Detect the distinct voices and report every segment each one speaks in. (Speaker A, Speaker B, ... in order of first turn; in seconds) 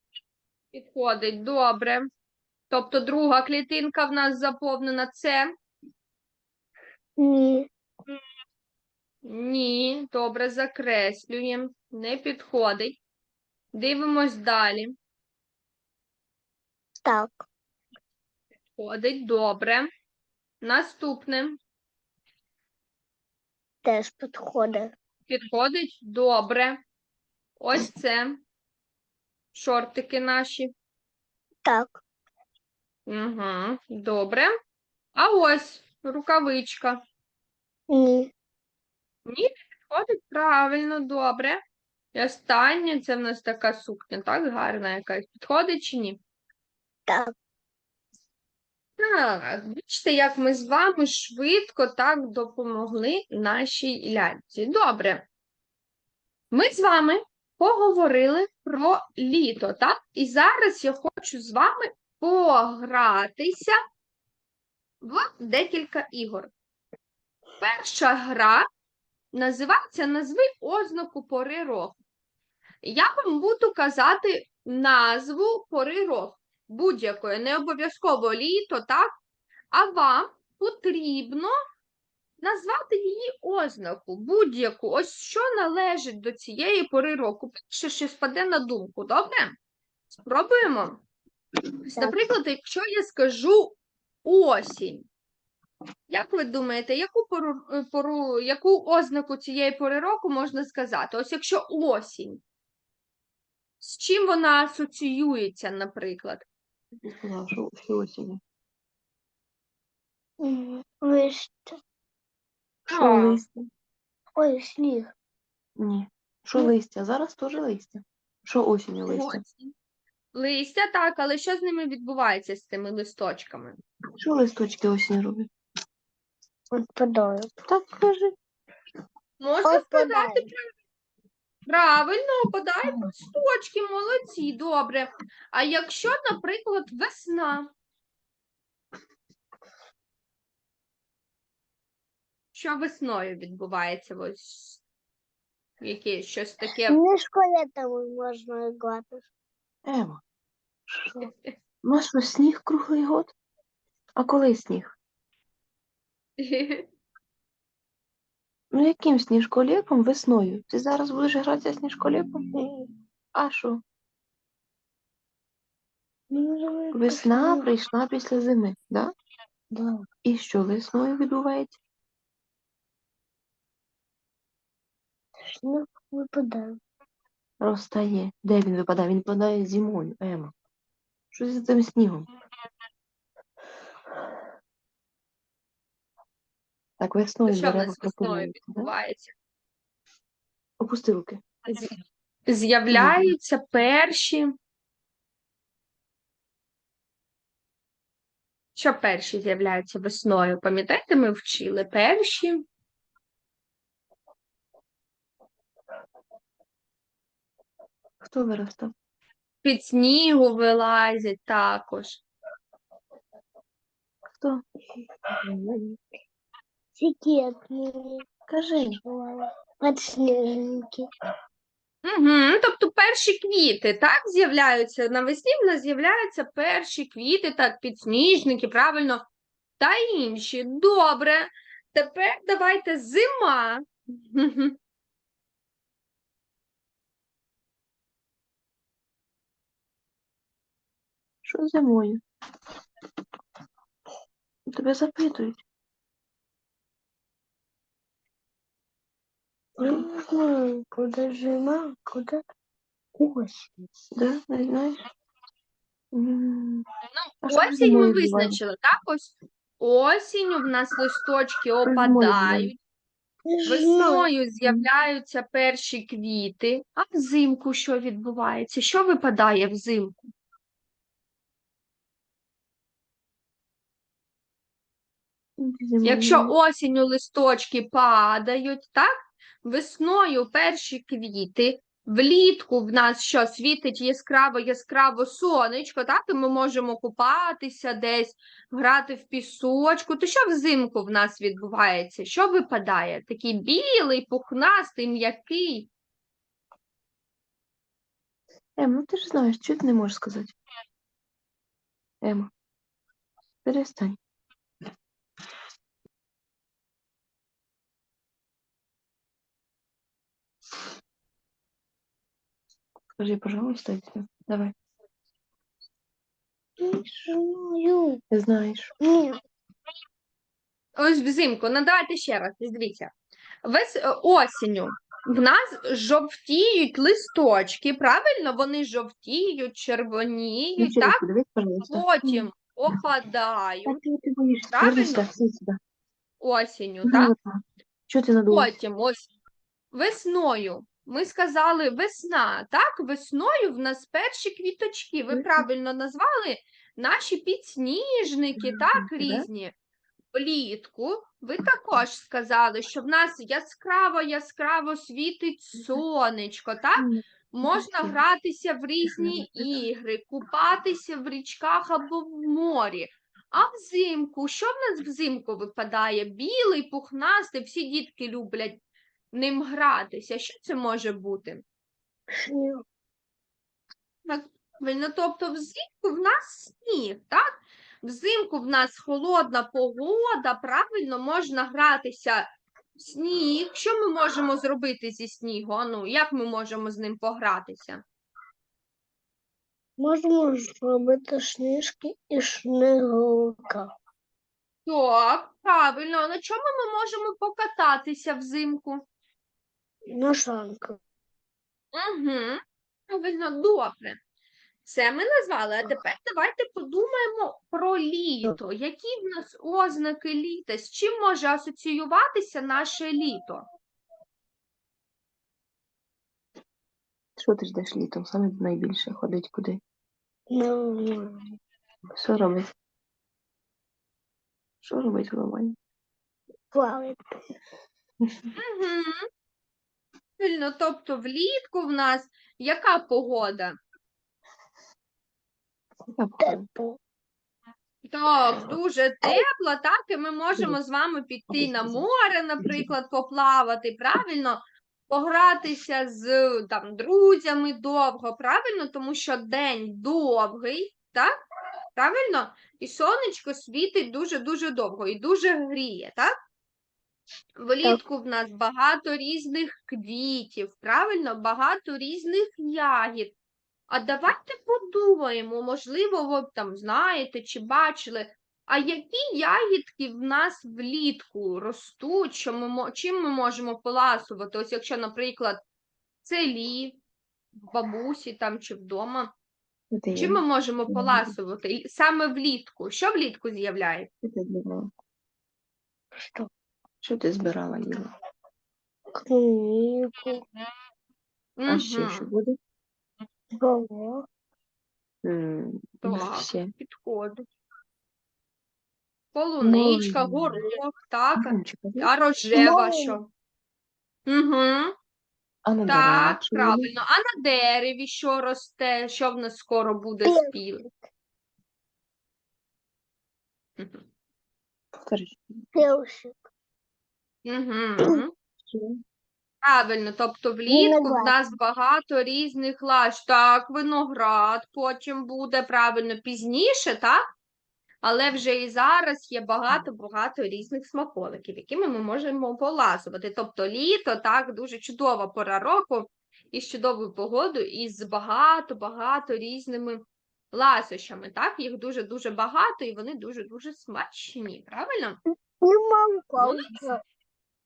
Speaker A: 0.7-2.0, 2.7-5.5, 9.2-13.0, 13.7-14.9, 18.7-19.9, 20.6-21.6, 25.3-26.8, 27.6-28.4, 29.5-30.7, 33.1-34.5, 35.2-37.0, 39.3-41.6, 42.1-46.2, 49.0-55.3, 56.5-63.8, 65.0-66.5, 67.6-68.7, 69.3-72.0, 72.8-79.1, 79.7-81.5, 82.4-89.5, 90.1-91.0, 91.8-95.1, 96.1-102.4, 103.8-106.5, 112.9-113.4, 119.1-119.7, 120.3-123.8, 129.4-130.7, 131.7-137.7, 142.5-144.8, 145.8-147.0, 151.2-151.5, 156.4-156.9, 187.5-189.3, 191.7-191.9, 192.5-194.5, 198.8-202.6, 209.6-212.2, 222.1-229.3, 229.8-234.8, 257.2-262.8, 263.7-270.2, 276.0-279.1, 279.6-295.9, 321.0-323.1, 323.6-331.2, 331.9-334.0, 334.7-335.2, 336.4-337.3, 338.5-339.3, 339.9-349.7, 350.3-371.6, 374.2-377.5, 378.0-382.4, 383.0-388.0, 394.9-399.0, 401.9-404.2, 404.8-413.6, 428.6-429.2, 430.4-433.8, 438.1-451.3, 452.0-456.3, 457.6-463.4, 463.9-475.6, 476.2-477.0, 477.6-479.3, 480.1-484.1, 491.6-492.3, 496.0-497.5, 499.3-503.3, 504.3-504.9, 505.9-510.8, 513.8-514.1, 517.5-518.3, 519.6-527.2, 528.0-545.2, 546.4-546.9
Speaker B: 7.2-7.7, 17.0-17.4, 23.8-24.9, 31.6-32.0, 37.9-38.3, 47.1-47.3, 110.4-111.8, 114.4-115.1, 126.7-127.5, 129.7-130.5, 146.9-149.3, 162.6-162.9, 166.3-167.7, 169.7-170.1, 175.5-176.8, 217.0-218.2, 218.8-221.1, 249.8-250.2, 250.9-252.4, 253.2-253.7, 263.5-264.3, 316.8-318.2, 319.0-319.4, 372.3-372.8, 390.0-393.9, 400.1-401.0, 420.5-421.4, 426.7-427.2, 436.4-437.0, 486.2-486.5, 489.2-490.4, 493.6-494.3, 502.5-503.2, 510.2-511.0, 515.7-516.4, 520.7-521.4, 545.6-547.0
Speaker C: 107.0-108.4, 112.9-113.7, 115.8-119.4, 124.2-125.5, 127.7-128.3, 149.9-150.2, 150.9-151.2, 151.8-153.3, 154.2-154.9, 158.7-162.4, 163.3-163.8, 166.9-169.1, 170.2-171.8, 177.6-180.5, 181.3-182.3, 187.0-188.9, 190.8-191.4, 192.9-193.3, 208.2-208.9, 214.3-214.6, 215.4-216.0, 218.5-219.0, 241.4-242.2, 244.7-245.6, 249.8-250.1, 254.2-255.0, 256.1-256.9, 257.4-258.6, 261.9-262.7, 275.6-276.5, 298.8-300.6, 302.2-302.5, 303.6-304.2, 313.2-314.7, 318.3-318.9, 330.8-332.5, 333.9-335.8, 337.1-338.7, 345.3-345.6, 348.8-349.5, 357.0-358.2, 359.1-359.7, 417.4-419.8, 422.2-422.7, 424.8-425.8, 436.1-436.7, 479.9-481.2, 484.2-484.9, 487.0-488.1, 491.7-492.6, 495.2-496.7, 499.6-500.5, 501.4-502.1, 505.6-506.9, 515.0-515.7, 518.7-519.0